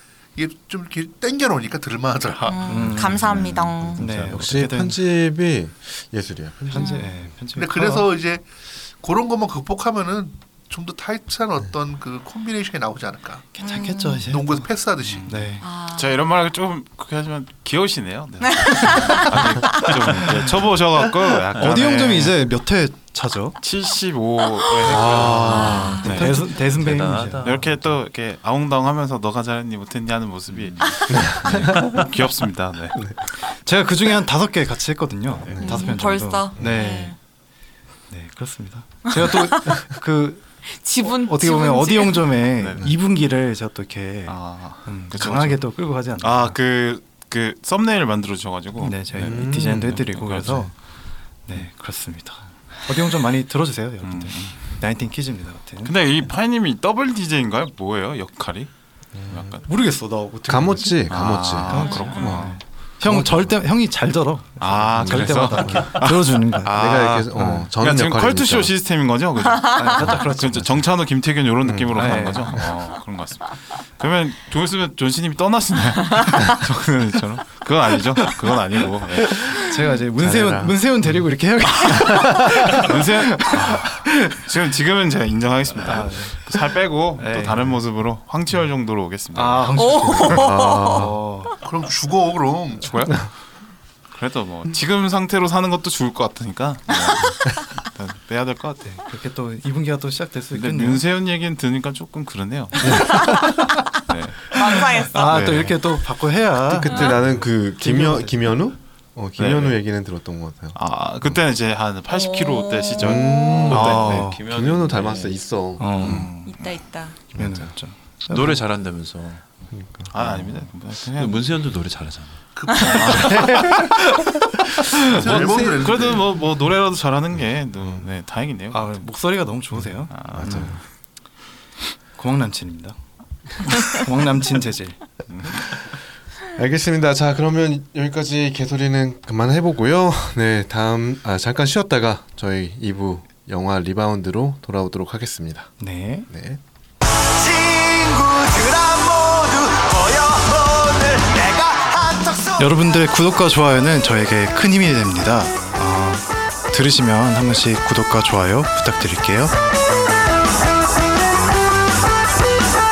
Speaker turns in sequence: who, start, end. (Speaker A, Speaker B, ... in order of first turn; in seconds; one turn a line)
Speaker A: 0.3-2.7
Speaker B: 2.4-3.3
Speaker C: 2.5-4.1
Speaker D: 2.9-4.4
Speaker B: 4.0-5.0
Speaker E: 4.3-7.3
Speaker B: 6.7-8.1
Speaker C: 6.8-7.1
Speaker A: 7.5-13.5
Speaker B: 13.6-15.7
Speaker C: 13.7-14.2
Speaker A: 14.3-15.5
Speaker F: 15.0-22.4
Speaker C: 15.6-16.1
Speaker C: 18.5-19.9
Speaker D: 19.9-20.3
Speaker B: 21.6-23.6
Speaker F: 23.6-26.4
Speaker C: 24.6-26.1
Speaker E: 24.9-26.1
Speaker B: 25.1-27.5
Speaker D: 25.6-28.0
Speaker F: 27.4-33.1
Speaker D: 30.5-30.9
Speaker E: 31.1-32.0
Speaker D: 31.6-32.0
Speaker B: 33.5-37.2
Speaker E: 35.5-35.7
Speaker C: 35.6-37.2
Speaker B: 38.1-40.5
Speaker C: 39.2-39.8
Speaker C: 40.7-42.4
Speaker B: 41.0-46.6
Speaker F: 42.6-42.8
Speaker F: 44.3-45.6
Speaker F: 46.2-50.7
Speaker B: 48.8-50.7
Speaker E: 49.2-50.0
Speaker B: 51.5-55.9
Speaker F: 54.0-54.6
Speaker F: 55.9-58.7
Speaker E: 59.1-59.6
Speaker F: 59.3-59.6
Speaker B: 59.7-66.8
Speaker E: 60.5-63.5
Speaker F: 61.1-62.6
Speaker C: 62.0-62.3
Speaker F: 64.6-79.7
Speaker E: 65.0-66.1
Speaker E: 66.7-68.7
Speaker B: 67.4-67.6
Speaker C: 69.5-70.1
Speaker B: 69.7-70.8
Speaker E: 71.7-72.6
Speaker B: 72.0-72.6
Speaker B: 79.2-84.4
Speaker E: 80.2-80.8
Speaker E: 81.8-82.9
Speaker F: 82.7-90.1
Speaker B: 85.8-86.4
Speaker B: 87.2-87.8
Speaker B: 89.3-91.5
Speaker C: 89.8-91.1
Speaker E: 90.1-91.2
Speaker A: 91.6-93.1
Speaker F: 92.8-93.3
Speaker F: 94.1-99.0
Speaker B: 98.8-101.0
Speaker F: 100.5-104.6
Speaker C: 102.8-103.9
Speaker E: 102.8-103.7
Speaker C: 104.5-105.5
Speaker B: 105.0-108.5
Speaker E: 105.3-105.8
Speaker E: 106.7-111.3
Speaker C: 106.9-107.2
Speaker F: 109.4-109.8
Speaker F: 110.8-114.1
Speaker C: 112.1-113.8
Speaker E: 113.0-116.3
Speaker B: 113.7-114.4
Speaker D: 113.7-115.4
Speaker B: 115.8-116.3
Speaker D: 116.0-116.5
Speaker F: 116.0-116.3
Speaker C: 116.4-117.2
Speaker B: 117.3-118.6
Speaker E: 117.3-117.7
Speaker D: 118.3-119.4
Speaker E: 119.7-120.1
Speaker F: 120.1-121.4
Speaker D: 120.1-122.4
Speaker A: 122.6-123.5
Speaker F: 122.8-123.9
Speaker C: 122.8-123.1
Speaker E: 123.2-123.6
Speaker A: 125.0-126.3
Speaker F: 125.1-129.0
Speaker E: 125.3-125.8
Speaker B: 128.7-130.8
Speaker E: 129.8-130.8
Speaker F: 130.1-130.8
Speaker B: 132.2-133.0
Speaker B: 133.7-135.0
Speaker F: 135.3-135.6
Speaker E: 136.6-145.7
Speaker B: 145.8-146.3
Speaker E: 146.3-146.6
Speaker D: 147.4-152.6
Speaker B: 152.6-159.5